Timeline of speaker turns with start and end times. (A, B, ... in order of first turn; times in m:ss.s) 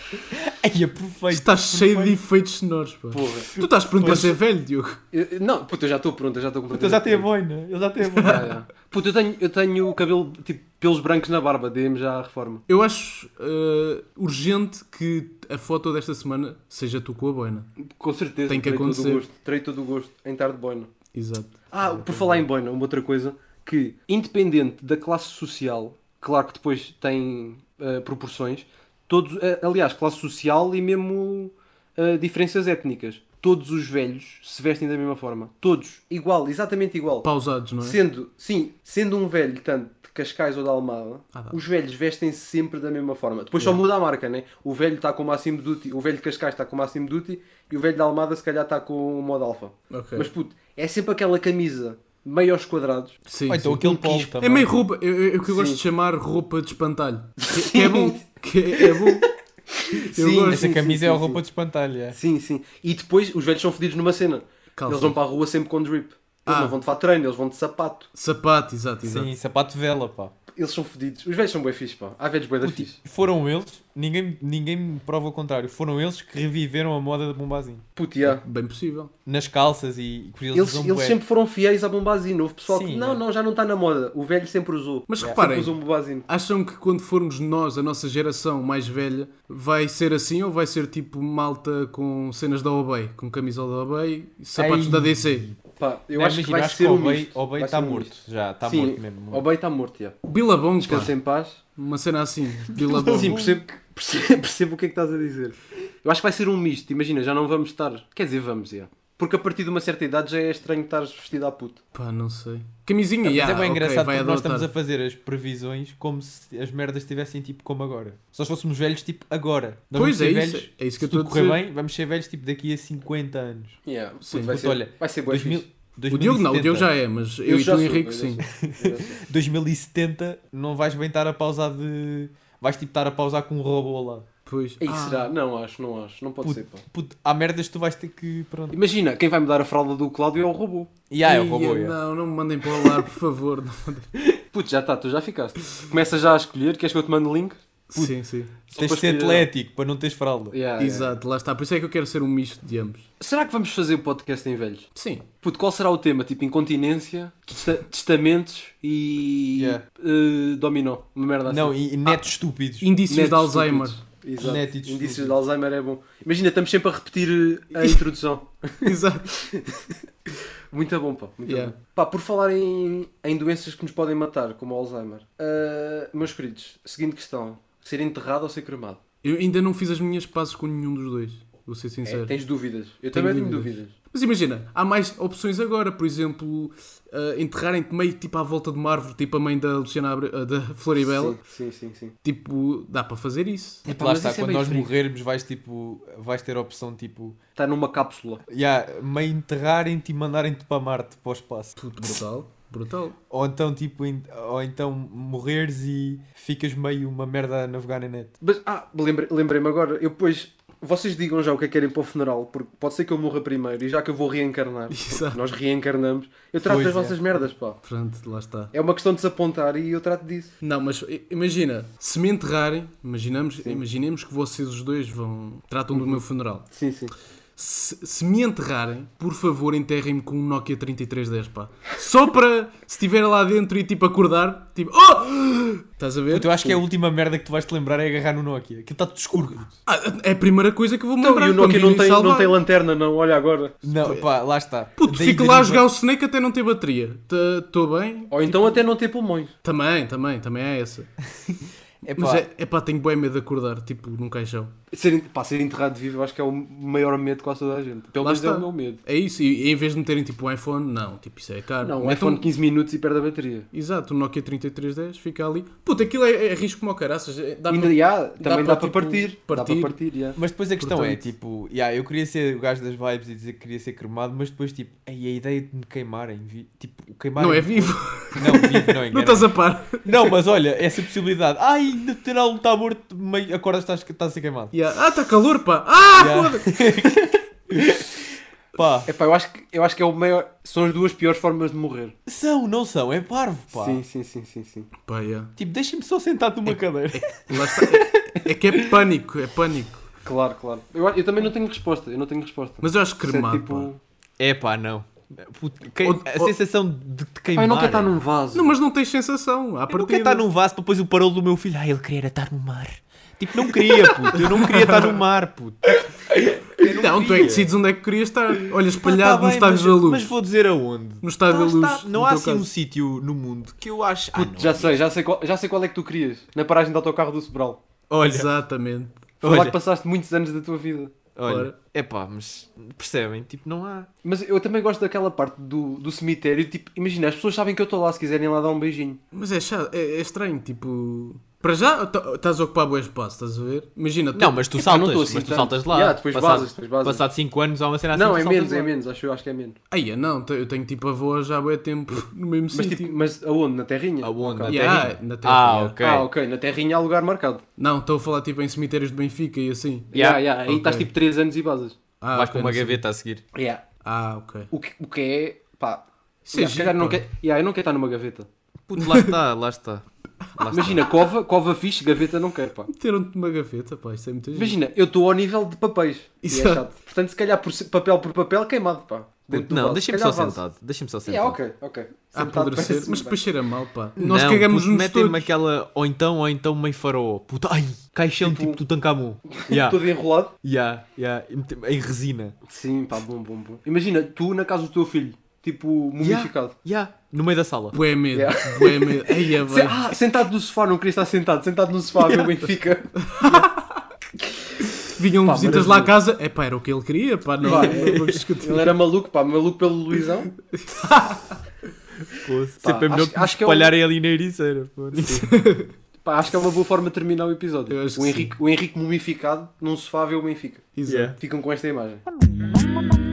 0:00.3-0:02.2 A
0:01.3-0:05.0 B
0:03.1-0:03.5 C
0:03.6-0:04.3 A
0:05.1-0:07.3 C
0:06.7-0:08.5 A
0:08.1-0:08.5 B
0:08.2-0:12.6 C
0:12.7-0:17.7 B
0:17.8-0:20.9 C
0:18.5-0:19.2 B
0:21.1-0:22.4 B
0:21.7-0:37.3 C
0:37.2-0:38.0 B
0:37.8-0:53.2 C
0:49.9-0:50.3 B
0:53.3-0:53.8 B
0:53.5-0:54.7 A
0:53.8-0:54.4 C
0:54.4-0:59.3 B
0:55.5-0:55.8 C
0:57.4-0:58.2 C
0:59.7-1:01.4 C
0:59.9-1:00.6 B
1:00.5-1:02.2 A
1:02.1-1:08.1 C
1:04.8-1:05.2 B
1:06.4-1:06.8 B
1:08.1-1:09.3 B
1:09.0-1:10.3 A
1:10.5-1:13.0 C
1:12.6-1:17.8 A
1:18.0-1:18.4 C
1:18.2-1:19.1 B
1:19.2-1:21.2 A
1:20.5-1:26.2 C
1:22.7-1:23.2 A
1:25.1-1:35.5 B
1:34.6-1:35.6 A
1:35.8-1:40.2 C
1:36.1-1:39.4 A
1:40.2-1:41.1 B
1:40.8-1:41.6 C
1:41.8-1:43.5 B
1:42.8-1:43.6 A
1:43.0-1:51.8 C
1:51.9-1:54.7 B
1:53.2-2:03.8 A
1:59.9-2:01.6 B
2:03.8-2:05.7 C
2:04.2-2:04.5 B
2:04.3-2:06.9 A
2:06.1-2:08.4 B
2:07.4-2:09.2 C
2:08.6-2:14.3 A
2:14.4-2:15.3 B
2:14.8-2:16.8 C
2:16.4-2:18.8 A
2:18.7-2:20.9 C
2:21.1-2:22.0 A
2:21.2-2:24.1 B
2:24.5-2:27.6 C
2:27.9-2:28.5 B
2:28.7-2:29.5 C
2:28.7-2:30.6 A
2:30.5-2:31.1 C
2:30.8-2:33.0 B
2:33.2-2:34.9 C
2:34.9-2:35.2 B
2:35.4-2:41.9 C
2:39.6-2:39.8 A
2:41.5-2:42.9 A
2:42.8-2:44.0 B
2:43.1-2:49.9 C
2:44.4-2:45.4 A
2:48.8-2:49.3 B
2:50.7-2:59.0 C
2:51.4-2:51.7 B
2:59.2-3:02.4 B
3:02.0-3:03.9 C
3:03.1-3:11.4 B
3:11.0-3:12.1 C
3:12.2-3:13.8 B
3:13.8-3:14.9 C
3:13.9-3:17.4 A
3:17.6-3:18.4 C
3:18.5-3:21.7 A
3:21.8-3:23.2 B
3:23.3-3:28.3 A
3:28.4-3:37.8 C
3:34.9-3:35.4 B
3:36.6-3:37.2 A
3:37.8-3:38.7 B
3:38.7-3:40.5 C
3:40.6-3:46.7 B
3:45.9-3:47.1 C
3:47.6-3:56.6 B
3:56.3-3:59.7 A
3:59.8-4:02.6 B
4:01.2-4:03.8 C
4:03.8-4:05.9 A
4:05.0-4:08.8 B
4:08.3-4:09.5 C
4:09.6-4:11.1 B
4:12.0-4:12.4 A
4:12.2-4:14.7 B
4:14.9-4:19.0 C
4:18.2-4:22.4 B
4:21.8-4:23.7 C
4:23.7-4:30.0 B
4:27.7-4:30.4 C
4:30.4-4:39.5 A
4:30.8-4:31.2 B
4:37.4-4:40.3 B
4:40.0-4:44.7 A
4:44.7-4:47.0 B
4:46.2-4:49.1 A
4:49.1-4:52.1 C
4:52.2-4:54.0 A
4:53.7-4:54.9 C
4:55.0-4:55.5 B
4:55.6-4:58.0 A
4:56.7-5:00.0 B
5:00.2-5:04.0 C
5:02.8-5:03.9 B
5:04.4-5:08.1 A
5:06.0-5:06.5 B
5:07.5-5:08.7 C
5:08.5-5:10.4 B
5:09.9-5:17.7 A
5:14.3-5:15.2 B
5:16.8-5:20.3 B
5:19.0-5:25.0 A
5:21.2-5:22.7 B
5:24.3-5:27.8 C
5:28.1-5:28.5 A
5:28.2-5:29.2 B
5:29.4-5:29.8 A
5:29.4-5:31.1 C
5:31.4-5:34.1 A
5:31.5-5:31.7 B
5:34.2-5:39.2 C
5:39.3-5:44.6 B
5:44.3-5:48.9 A
5:44.8-5:47.2 C
5:48.1-5:49.8 C
5:49.9-5:53.1 B
5:52.7-5:54.8 C
5:54.2-5:56.3 A
5:54.7-5:56.0 B
5:56.0-5:57.6 C
5:57.8-6:01.1 B
6:00.1-6:02.0 C
6:00.1-6:00.4 A
6:02.2-6:03.0 B
6:02.3-6:03.4 A
6:03.5-6:03.8 C
6:04.0-6:04.7 B
6:04.7-6:08.5 C
6:06.5-6:07.2 B
6:08.9-6:11.1 A
6:09.0-6:09.3 B
6:10.7-6:12.9 C
6:12.9-6:14.8 B
6:14.5-6:20.6 C
6:16.4-6:16.8 B
6:19.5-6:21.6 A
6:21.2-6:23.4 C
6:22.3-6:25.5 B
6:24.2-6:30.1 A
6:28.4-6:28.8 C
6:29.5-6:30.5 C
6:30.6-6:32.6 A
6:32.6-6:36.7 C
6:36.2-6:38.0 A
6:37.9-6:40.0 B
6:38.3-6:43.7 C
6:43.3-6:43.7 B
6:45.1-6:49.0 B
6:45.4-6:46.1 C
6:47.6-6:50.5 C
6:47.7-6:48.4 A
6:50.7-6:51.5 B
6:52.3-6:55.5 A
6:52.8-6:53.9 C
6:55.2-6:55.4 C
6:55.4-6:55.9 B
6:56.2-7:00.9 C
6:57.9-6:58.5 B
7:01.0-7:01.3 B
7:01.0-7:01.4 A
7:01.4-7:02.2 C